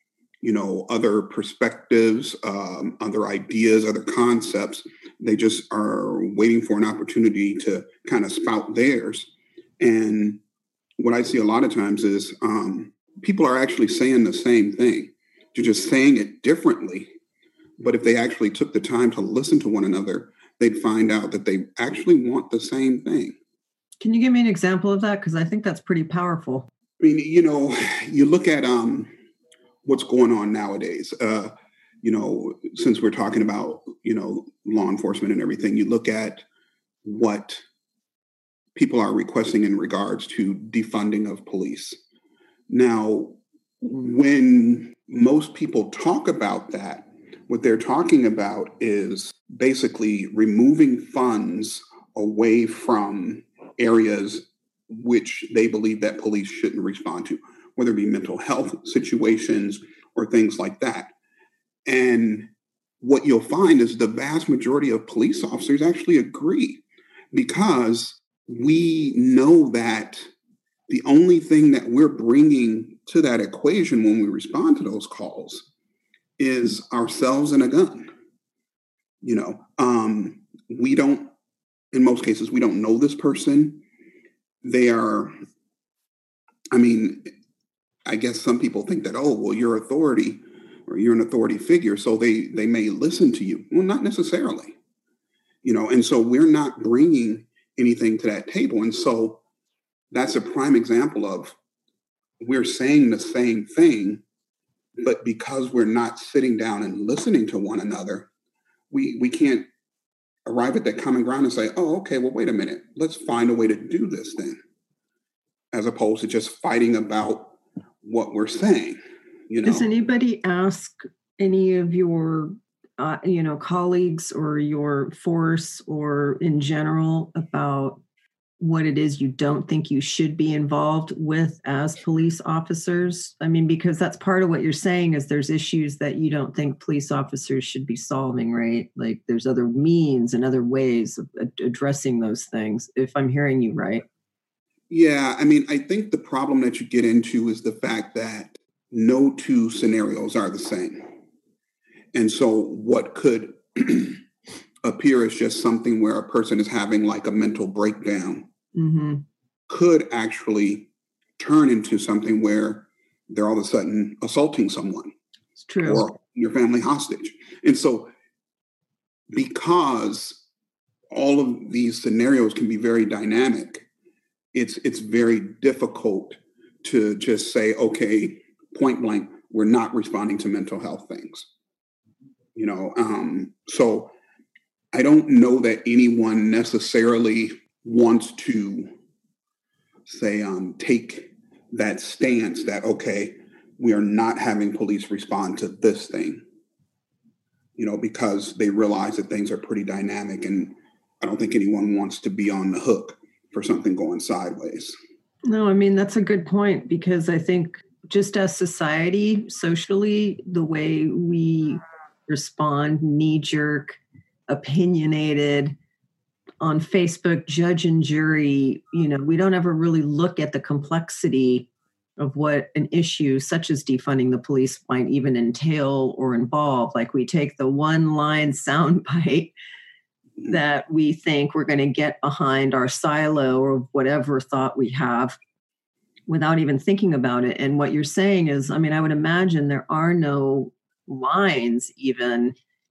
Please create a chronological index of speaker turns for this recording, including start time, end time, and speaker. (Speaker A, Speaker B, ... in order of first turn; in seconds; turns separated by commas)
Speaker A: 0.4-10.4, Speaker A: 11.0-17.1, Speaker A: 17.8-23.4, Speaker B: 24.0-26.7, Speaker A: 27.0-29.1, Speaker A: 29.8-36.4, Speaker A: 37.0-37.6, Speaker A: 38.8-42.0, Speaker A: 42.7-61.1, Speaker A: 61.8-62.5, Speaker A: 63.0-70.2, Speaker A: 70.9-75.7, Speaker A: 76.4-78.1, Speaker A: 79.2-81.3, Speaker A: 81.9-83.8, Speaker A: 84.6-85.3, Speaker A: 86.7-87.3, Speaker A: 88.1-94.8, Speaker A: 95.6-99.4, Speaker A: 100.1-101.5, Speaker A: 102.4-104.2, Speaker A: 105.0-108.3, Speaker A: 108.9-109.7, Speaker A: 110.5-114.6, Speaker A: 115.7-119.8, Speaker B: 119.6-128.0, Speaker B: 128.6-144.0, Speaker A: 144.9-151.1, Speaker A: 152.1-154.2, Speaker A: 154.8-158.5, Speaker B: 158.8-159.2, Speaker A: 159.7-165.1, Speaker B: 165.6-166.1, Speaker A: 165.8-168.1, Speaker A: 169.3-170.4, Speaker A: 171.1-173.8, Speaker A: 174.5-181.5, Speaker A: 182.5-184.1, Speaker A: 184.9-188.9, Speaker A: 190.1-196.4, Speaker A: 197.8-204.9, Speaker B: 205.4-215.8, Speaker B: 216.6-229.5, Speaker B: 230.5-235.4, Speaker B: 236.3-242.5